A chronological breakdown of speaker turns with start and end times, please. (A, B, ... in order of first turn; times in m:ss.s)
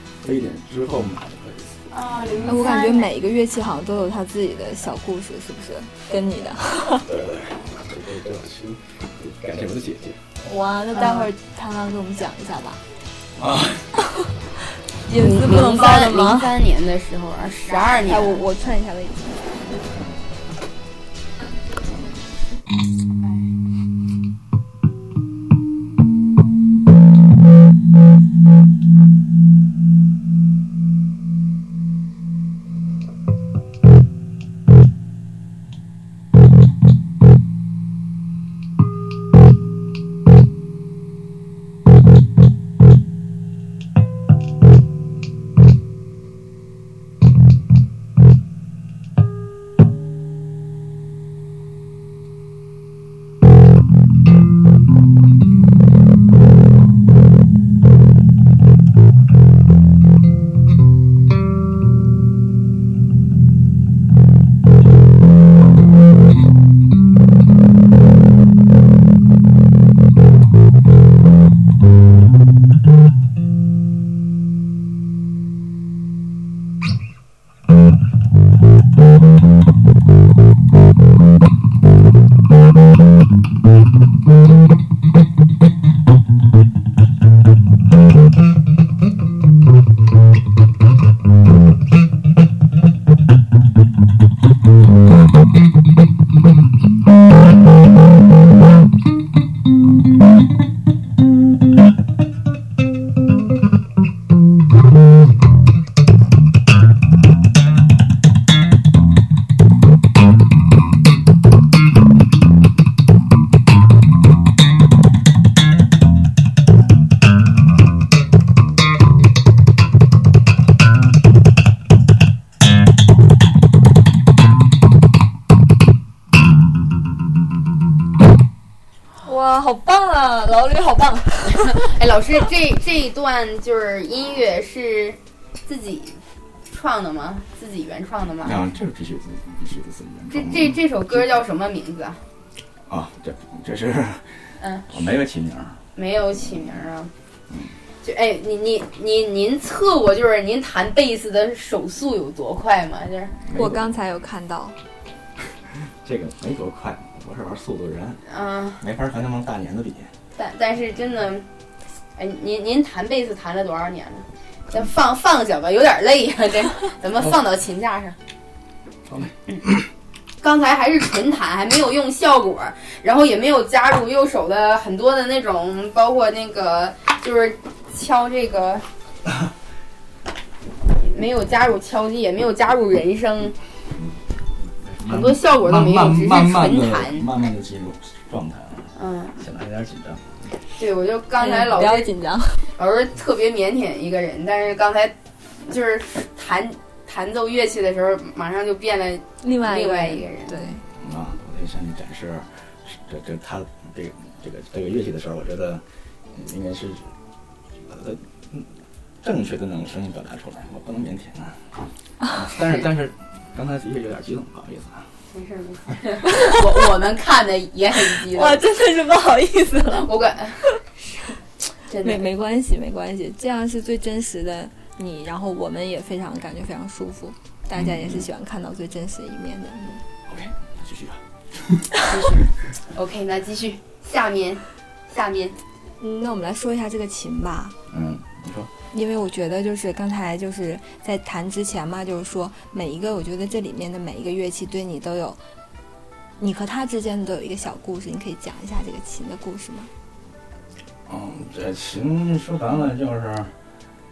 0:00.2-0:02.6 A
0:01.9-0:03.1 B
0:02.4-0:07.1 C
0:07.0-0:10.2 A
0:10.4-0:12.8 C
0:10.9-0:11.3 B
0:13.4-0:13.9 A
0:14.0-0:14.3 C
0:15.0-0:16.5 C
0:15.1-0:18.4 B
0:18.0-0:19.7 C
0:19.8-0:20.2 A
0:23.2-0:23.5 B
2:09.2-2:11.9 C
2:11.6-2:18.6 B
2:18.4-2:20.8 A
2:20.3-2:22.2 B
2:22.9-2:25.8 A
2:24.6-2:24.9 B
2:26.0-2:27.1 B
2:28.0-2:33.4 B
2:33.5-2:33.9 A
2:33.5-2:34.8 C
2:35.8-2:38.2 A
2:38.3-2:38.8 B
2:38.8-2:40.1 A
2:40.4-2:41.5 B
2:42.2-2:48.2 B
2:49.1-2:49.9 A
2:50.4-2:58.8 B
3:01.0-3:03.6 B
3:04.7-3:10.3 A
3:05.1-3:07.3 B
3:09.0-3:09.4 B
3:10.8-3:12.1 B
3:11.4-3:12.7 C
3:12.8-3:15.1 B
3:15.6-3:20.7 B
3:19.4-3:20.8 C
3:21.0-3:27.1 A
3:27.8-3:28.7 A
3:29.2-3:35.1 A
3:35.3-3:38.6 B
3:38.2-3:40.2 C
3:39.9-3:41.3 B
3:41.8-3:42.3 B
3:42.0-3:50.0 C
3:47.7-3:48.3 A
3:50.3-3:51.9 A
3:52.1-3:55.6 B
3:56.0-3:57.8 C
3:57.9-3:58.7 A
3:58.9-4:05.4 C
4:06.4-4:09.9 C
4:11.1-4:13.5 A